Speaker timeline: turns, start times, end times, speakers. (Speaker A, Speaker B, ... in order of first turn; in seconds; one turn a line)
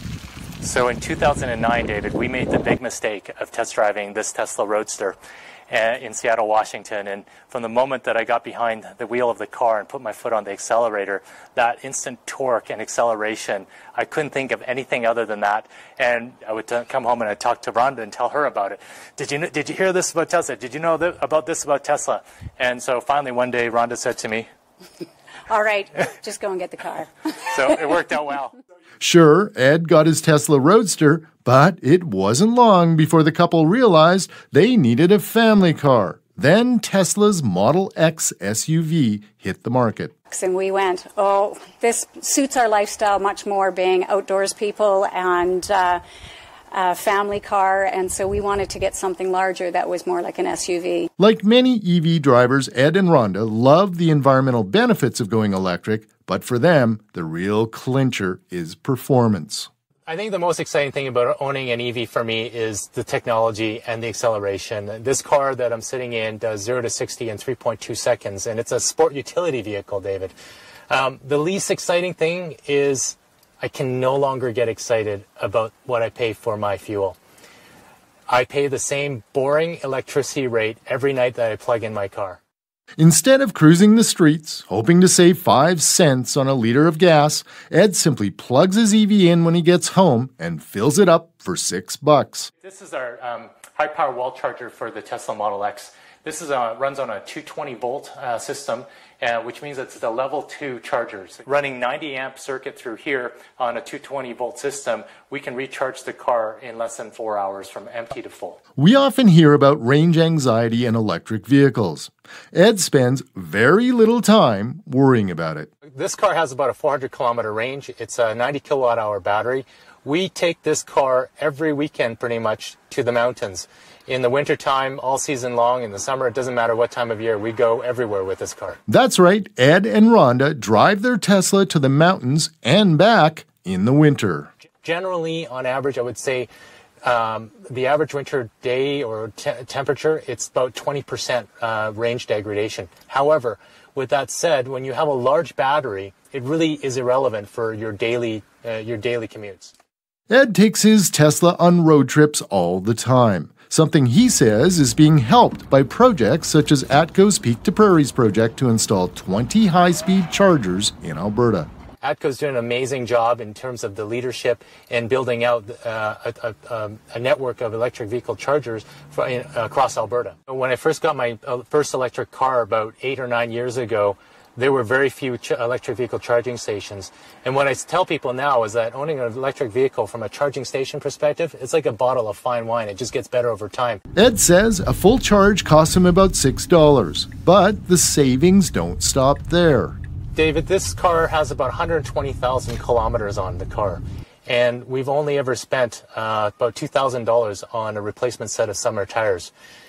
Speaker A: 0.6-5.2
Speaker A: 5.7-24.5
Speaker B: 25.5-27.3
Speaker A: 27.4-28.6
Speaker C: 29.0-40.1
Speaker B: 40.3-46.0
Speaker B: 46.7-51.1
Speaker C: 51.2-59.7
Speaker A: 60.1-70.3
Speaker A: 70.9-77.2
Speaker A: 78.3-82.4
Speaker C: 83.0-92.5
Speaker A: 92.6-108.6
Speaker C: 108.8-115.7
Speaker A: 115.9-128.8
Speaker C: 128.9-134.5
Speaker A: 134.8-136.5
Speaker A: 137.0-149.7
Speaker C: 150.3-161.7
Speaker A: 162.0-184.0
Speaker C: 184.2-190.0
Speaker A: 190.3-199.5